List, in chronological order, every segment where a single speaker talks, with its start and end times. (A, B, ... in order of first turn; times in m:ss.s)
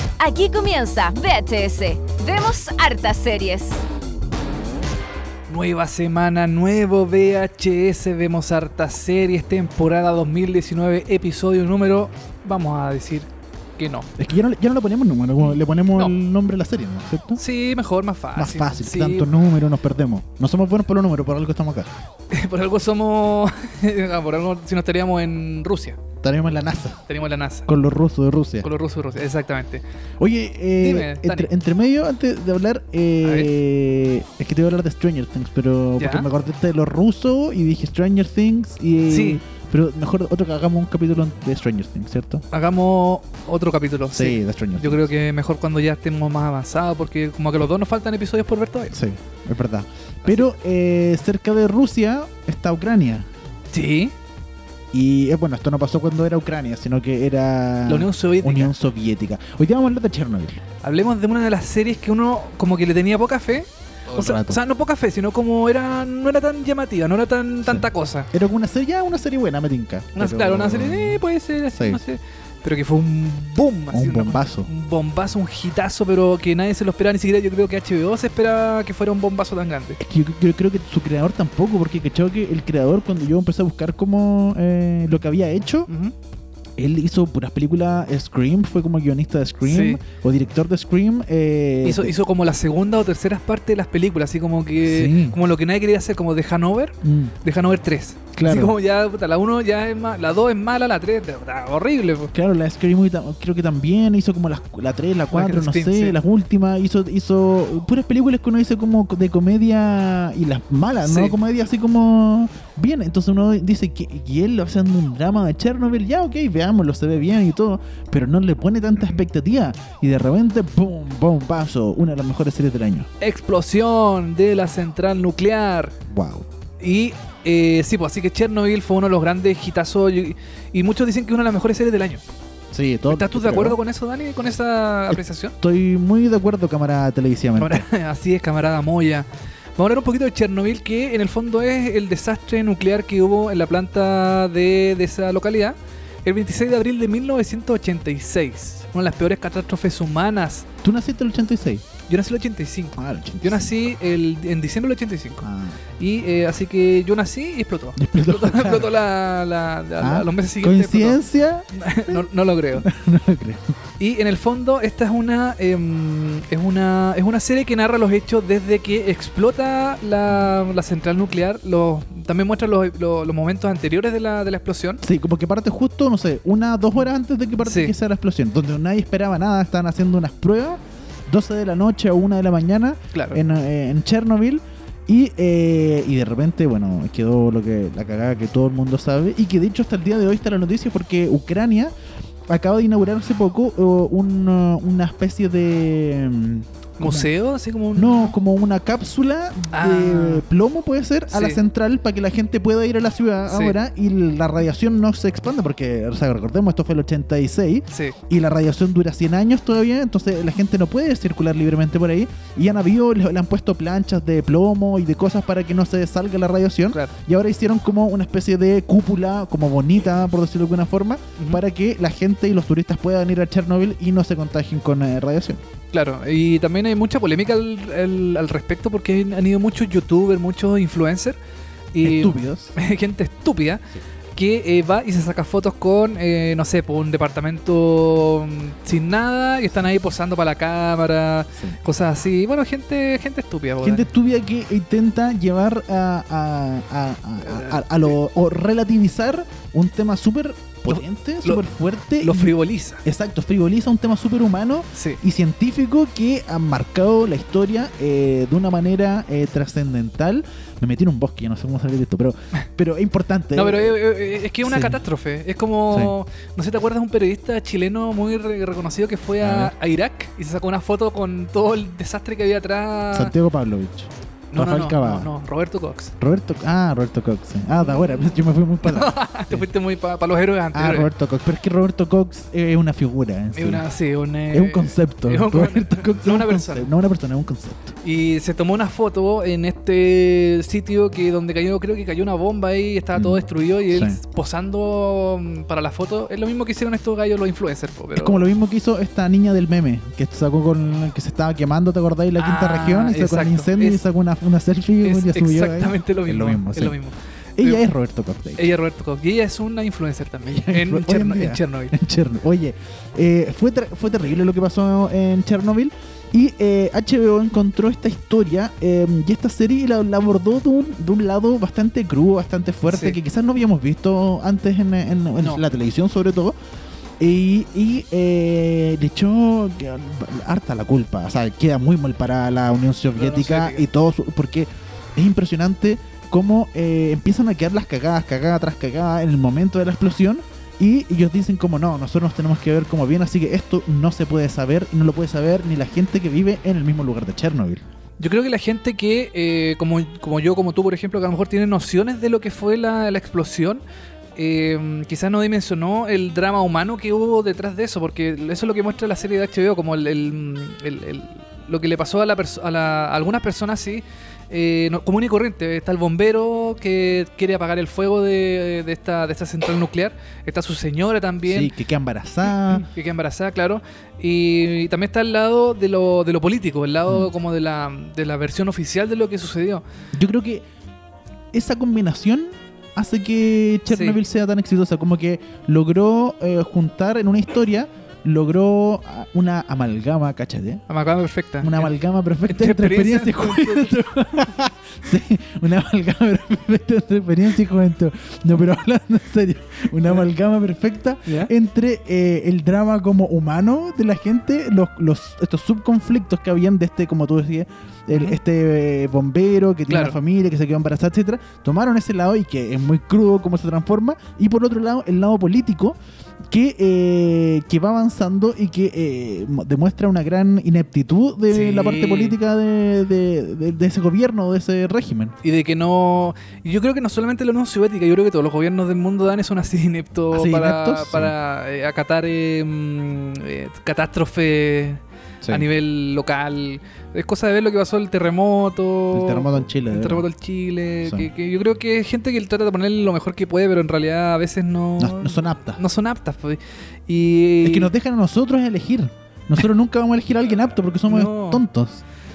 0:00.2-0:03.8 A
0:05.5-0:14.1 B
0:14.2-0:17.4 C
0:15.4-0:16.1 B
0:17.3-0:19.3 B
0:18.3-0:21.9 C
0:22.3-0:26.0 B
0:26.2-0:27.0 C
0:27.1-0:27.7 B
0:27.7-0:28.7 C
0:28.6-0:29.8 B
0:30.2-0:42.4 C
0:30.8-0:31.5 B
0:33.2-0:33.5 B
0:36.0-0:36.3 B
0:39.1-0:39.4 B
0:42.5-0:49.0 B
0:44.1-0:45.1 C
0:48.9-0:53.3 C
0:50.2-0:50.5 B
0:53.7-0:54.1 B
0:54.9-1:00.6 C
0:57.9-0:58.7 B
1:00.8-1:08.3 B
1:04.1-1:04.6 C
1:07.6-1:12.0 C
1:10.1-1:20.0 B
1:13.9-1:14.7 C
1:20.0-1:25.9 C
1:25.9-1:26.1 B
1:26.8-1:32.2 C
1:29.6-1:30.0 B
1:31.8-1:42.3 B
1:34.8-1:35.4 C
1:37.0-1:37.3 C
1:38.3-1:38.7 C
1:42.3-2:03.1 C
1:45.3-1:46.2 B
1:51.0-1:51.4 B
2:03.2-2:05.9 B
2:06.1-2:06.4 C
2:06.8-2:12.2 B
2:12.7-2:13.8 C
2:13.1-2:15.6 B
2:15.1-2:17.8 C
2:17.6-2:30.7 B
2:30.8-2:31.8 C
2:32.1-2:42.9 B
2:33.0-2:33.7 C
2:35.4-2:35.8 C
2:38.0-2:38.9 C
2:40.0-2:43.7 C
2:44.0-2:55.0 B
2:55.0-3:11.9 C
2:57.6-2:57.9 B
3:03.1-3:03.4 B
3:12.5-3:17.3 C
3:17.0-3:18.3 B
3:17.9-3:45.6 C
3:19.7-3:20.4 B
3:21.3-3:21.6 B
3:23.5-3:23.8 B
3:27.9-3:28.2 B
3:45.9-3:51.4 B
3:51.9-4:04.1 B
3:52.0-3:52.7 C
4:03.8-4:24.0 C
4:07.4-4:08.2 B
4:10.9-4:11.6 B
4:12.2-4:13.0 B
4:14.9-4:15.2 B
4:23.5-4:33.3 B
4:24.6-4:25.0 C
4:25.9-4:26.1 C
4:29.4-4:29.7 C
4:33.1-4:35.3 C
4:34.5-4:36.1 B
4:36.2-4:39.7 C
4:37.9-4:38.3 B
4:38.8-4:41.1 B
4:40.7-4:43.8 C
4:43.5-4:46.9 B
4:44.5-4:47.9 C
4:48.0-4:58.5 B
4:53.1-4:54.2 C
4:58.1-5:07.0 C
5:02.4-5:04.0 B
5:05.0-5:07.8 B
5:07.6-5:08.7 C
5:08.6-5:11.9 B
5:10.4-5:26.6 C
5:22.9-5:23.2 B
5:25.4-5:25.6 B
5:27.2-5:47.8 C
5:33.1-5:33.9 B
5:48.2-5:53.8 B
5:54.4-6:11.7 B
6:11.4-6:12.9 C
6:12.4-6:19.8 B
6:20.1-6:20.6 C
6:21.5-6:30.8 C
6:23.9-6:24.2 B
6:30.9-6:31.9 B
6:31.6-6:56.0 C
6:32.5-6:34.0 B
6:41.2-6:41.5 B
6:48.1-6:48.4 B
6:49.9-6:50.2 B
6:56.5-7:05.4 C
7:01.5-7:02.4 B
7:05.4-7:27.9 B
7:10.3-7:11.3 C
7:15.4-7:15.7 C
7:19.1-7:20.3 C
7:21.0-7:21.3 C
7:25.0-7:25.8 C
7:27.6-7:32.0 C
7:31.0-7:31.6 B